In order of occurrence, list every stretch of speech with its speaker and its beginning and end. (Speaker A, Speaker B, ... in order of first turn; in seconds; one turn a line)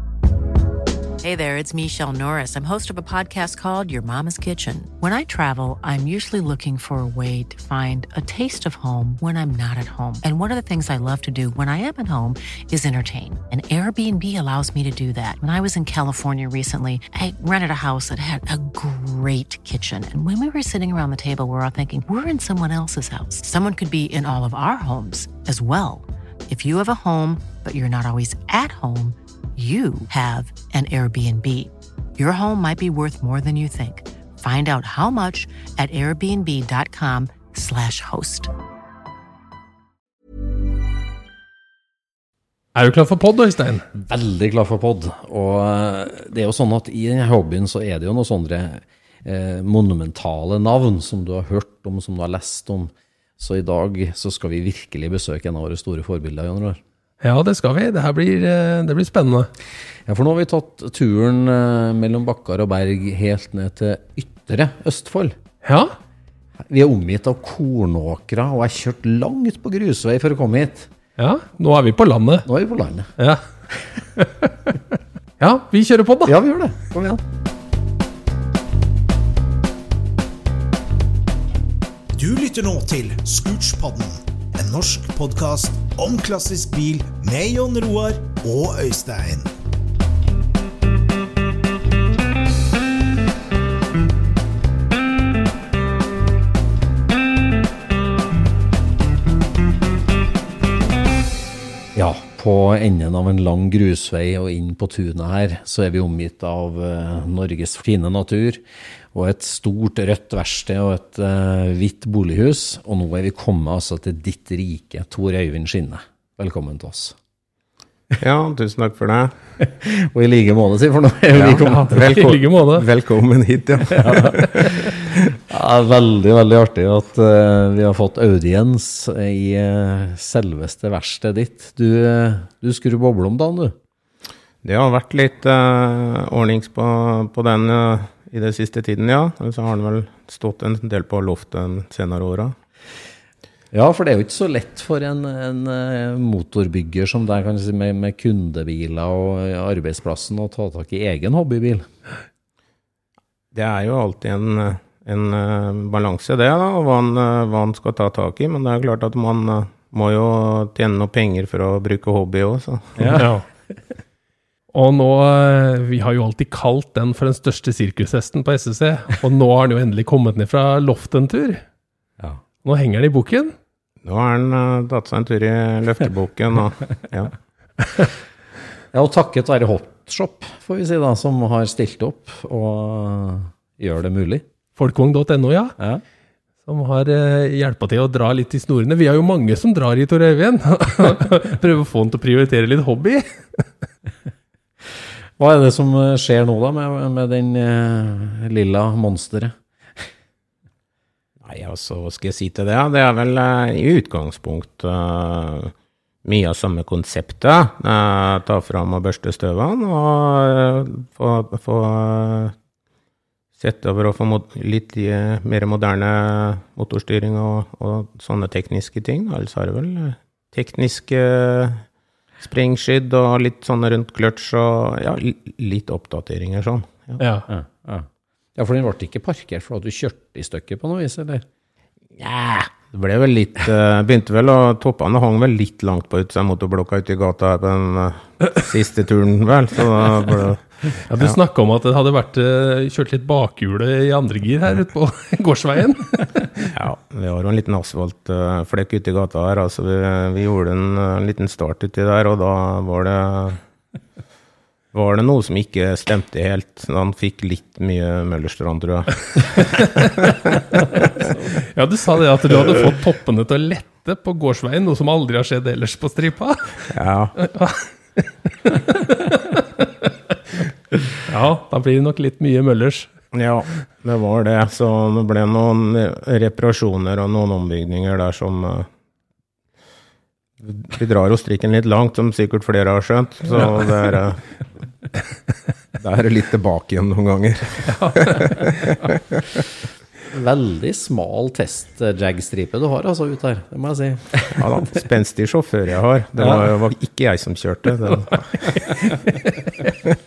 Speaker A: 1.2-38.5
Speaker B: 42.8-43.9
Speaker C: 44.0-56.8
Speaker B: 57.2-59.5
Speaker C: 60.1-65.4
Speaker B: 65.6-66.0
Speaker C: 66.7-70.9
Speaker B: 71.2-72.5
Speaker C: 72.5-73.1
Speaker B: 73.2-73.5
Speaker B: 74.2-74.5
Speaker B: 75.4-76.3
Speaker C: 76.2-77.2
Speaker D: 82.2-89.5
Speaker C: 101.9-117.2
Speaker E: 118.2-119.3
Speaker C: 119.6-122.1
Speaker E: 121.3-125.3
Speaker B: 121.5-122.9
Speaker C: 123.9-133.8
Speaker E: 134.6-142.6
Speaker C: 143.7-151.9
Speaker E: 153.5-163.2
Speaker C: 163.0-163.2
Speaker B: 163.2-163.4
Speaker B: 164.7-171.6
Speaker B: 172.6-173.5
Speaker E: 174.0-177.3
Speaker C: 178.9-184.4
Speaker B: 184.8-185.8
Speaker B: 186.7-193.7
Speaker C: 195.4-200.1
Speaker E: 201.4-205.7
Speaker E: 206.2-212.6
Speaker E: 213.6-221.8
Speaker E: 222.4-227.2
Speaker B: 227.2-227.5
Speaker C: 227.5-231.4
Speaker E: 232.2-241.3
Speaker B: 241.1-246.7
Speaker E: 246.7-253.6
Speaker E: 254.9-260.6
Speaker B: 261.6-270.1
Speaker E: 266.9-267.3
Speaker B: 271.2-273.1
Speaker E: 273.3-278.9
Speaker E: 280.6-284.6
Speaker E: 285.9-289.6
Speaker C: 290.3-295.0
Speaker E: 294.6-298.9
Speaker C: 296.4-296.7